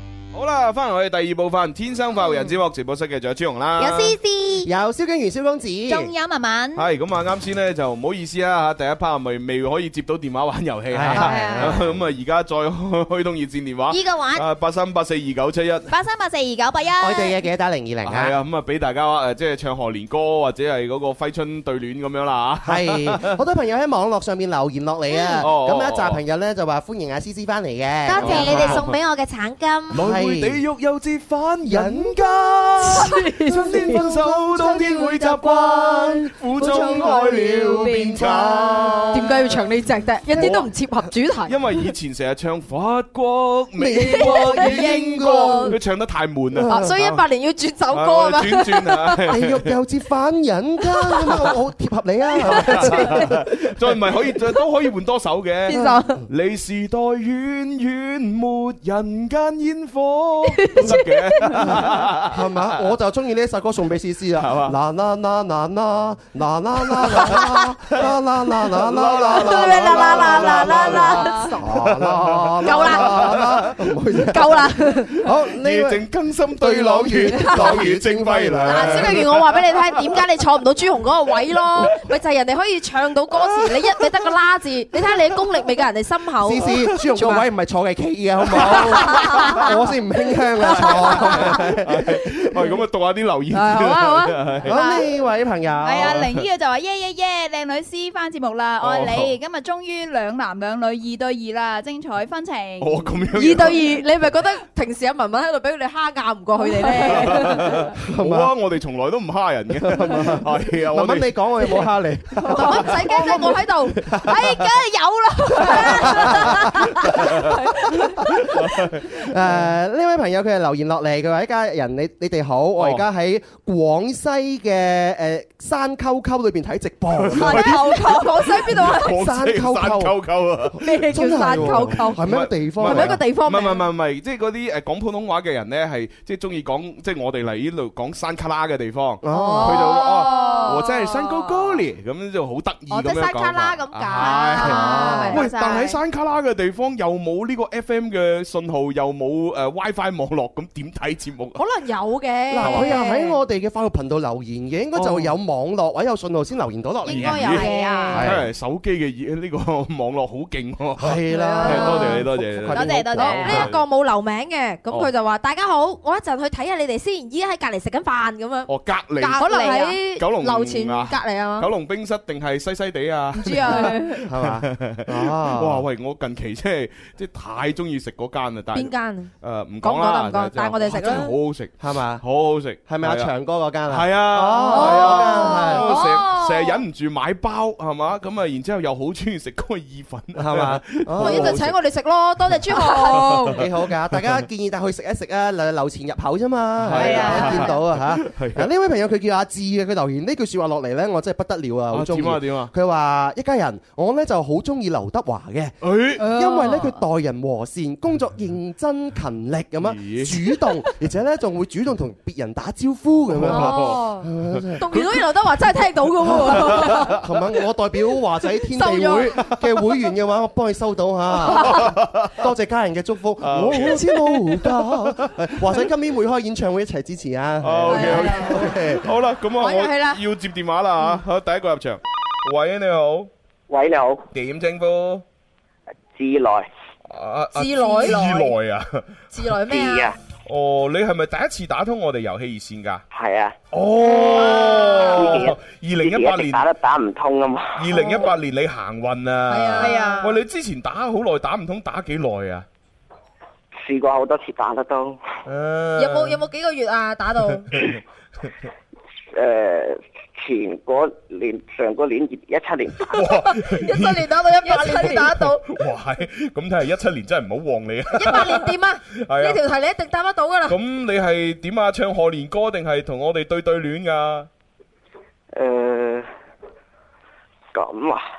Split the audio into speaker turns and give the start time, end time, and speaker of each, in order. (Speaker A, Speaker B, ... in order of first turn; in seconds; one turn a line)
Speaker A: 0.3-4.2
Speaker B: 3.8-4.7
Speaker C: 4.6-6.1
Speaker B: 5.9-6.9
Speaker A: 6.8-15.9
Speaker C: 10.9-12.0
Speaker B: 11.2-11.7
Speaker B: 15.9-17.4
Speaker C: 17.0-18.4
Speaker A: 18.0-23.3
Speaker C: 22.6-28.9
Speaker A: 25.4-26.2
Speaker D: 28.1-29.9
Speaker A: 28.2-29.0
Speaker C: 29.9-30.6
Speaker A: 29.9-39.6
Speaker C: 31.6-39.6
Speaker D: 33.0-34.0
Speaker D: 37.8-38.3
Speaker D: 39.1-41.6
Speaker C: 40.3-40.6
Speaker A: 40.3-40.7
Speaker A: 41.5-47.2
Speaker C: 43.8-45.8
Speaker D: 43.9-45.8
Speaker C: 46.5-46.9
Speaker D: 46.6-49.2
Speaker A: 47.9-49.7
Speaker C: 49.3-53.4
Speaker D: 52.4-53.3
Speaker A: 52.5-62.5
Speaker D: 55.7-56.2
Speaker C: 55.7-56.0
Speaker D: 60.6-61.6
Speaker C: 61.5-79.3
Speaker A: 64.4-64.7
Speaker A: 67.0-67.4
Speaker A: 68.6-73.8
Speaker D: 69.2-71.6
Speaker B: 71.1-71.5
Speaker D: 72.6-73.4
Speaker D: 74.2-75.2
Speaker A: 75.3-79.4
Speaker D: 77.3-77.7
Speaker D: 78.6-87.5
Speaker C: 86.4-92.2
Speaker A: 88.5-89.7
Speaker D: 88.8-89.7
Speaker D: 90.6-91.5
Speaker A: 90.8-94.8
Speaker D: 93.5-95.0
Speaker C: 94.6-96.2
Speaker B: 95.8-103.2
Speaker A: 96.0-96.5
Speaker A: 98.8-99.3
Speaker A: 102.8-103.8
Speaker D: 103.3-107.8
Speaker B: 106.9-107.2
Speaker A: 107.0-111.8
Speaker C: 108.0-108.5
Speaker C: 109.8-113.5
Speaker D: 112.5-118.5
Speaker C: 114.0-114.6
Speaker B: 115.0-115.7
Speaker C: 115.6-117.5
Speaker C: 118.2-118.6
Speaker A: 118.5-119.0
Speaker C: 119.2-130.2
Speaker A: 122.8-123.0
Speaker A: 127.1-130.8
Speaker D: 127.3-129.1
Speaker C: 130.7-133.2
Speaker D: 130.8-132.2
Speaker A: 131.5-151.6
Speaker D: 132.8-133.8
Speaker C: 139.2-140.1
Speaker D: 139.3-141.0
Speaker B: 140.3-140.7
Speaker D: 142.9-145.8
Speaker B: 144.1-146.0
Speaker C: 144.6-145.5
Speaker D: 151.6-153.4
Speaker C: 152.5-158.5
Speaker A: 152.6-153.0
Speaker A: 154.9-155.3
Speaker B: 157.0-158.2
Speaker A: 157.1-163.8
Speaker D: 157.5-158.3
Speaker C: 161.0-163.7
Speaker D: 161.3-162.2
Speaker B: 162.7-163.7
Speaker D: 163.1-171.7
Speaker A: 168.7-169.6
Speaker B: 169.4-170.0
Speaker A: 170.1-183.3
Speaker D: 173.4-174.0
Speaker B: 173.5-174.0
Speaker C: 174.2-175.8
Speaker D: 178.7-181.3
Speaker C: 181.8-182.2
Speaker C: 182.8-185.9
Speaker A: 183.9-191.8
Speaker D: 184.7-186.8
Speaker C: 190.3-191.6
Speaker D: 191.2-193.6
Speaker A: 192.8-193.7
Speaker C: 192.9-214.8
Speaker A: 196.8-198.6
Speaker B: 197.0-197.5
Speaker D: 197.0-197.8
Speaker A: 201.9-202.7
Speaker A: 205.8-206.3
Speaker D: 206.2-206.9
Speaker A: 209.8-210.4
Speaker A: 213.3-215.2
Speaker D: 213.4-214.2
Speaker D: 214.8-217.2
Speaker C: 216.2-229.0
Speaker A: 216.3-217.2
Speaker D: 218.7-219.4
Speaker A: 221.4-222.3
Speaker A: 223.4-225.1
Speaker A: 227.6-233.3
Speaker D: 227.9-228.8
Speaker D: 229.6-230.2
Speaker E: 233.7-234.2
Speaker A: 234.3-235.2
Speaker E: 236.1-236.7
Speaker A: 237.1-239.1
Speaker D: 237.5-238.5
Speaker D: 239.3-240.1
Speaker E: 239.7-240.2
Speaker A: 240.4-243.0
Speaker E: 243.1-243.6
Speaker A: 243.7-246.7
Speaker D: 244.1-245.3
Speaker E: 245.1-248.0
Speaker A: 247.8-252.7
Speaker D: 247.9-248.3
Speaker D: 249.5-250.2
Speaker B: 249.8-250.2
Speaker E: 253.8-255.2
Speaker A: 255.4-256.4
Speaker D: 256.0-257.7
Speaker A: 257.7-258.0
Speaker E: 259.3-263.2
Speaker A: 263.1-268.7
Speaker D: 263.2-265.6
Speaker D: 268.1-270.8
Speaker A: 269.2-269.6
Speaker A: 270.7-274.5
Speaker E: 275.5-276.3
Speaker E: 277.7-278.3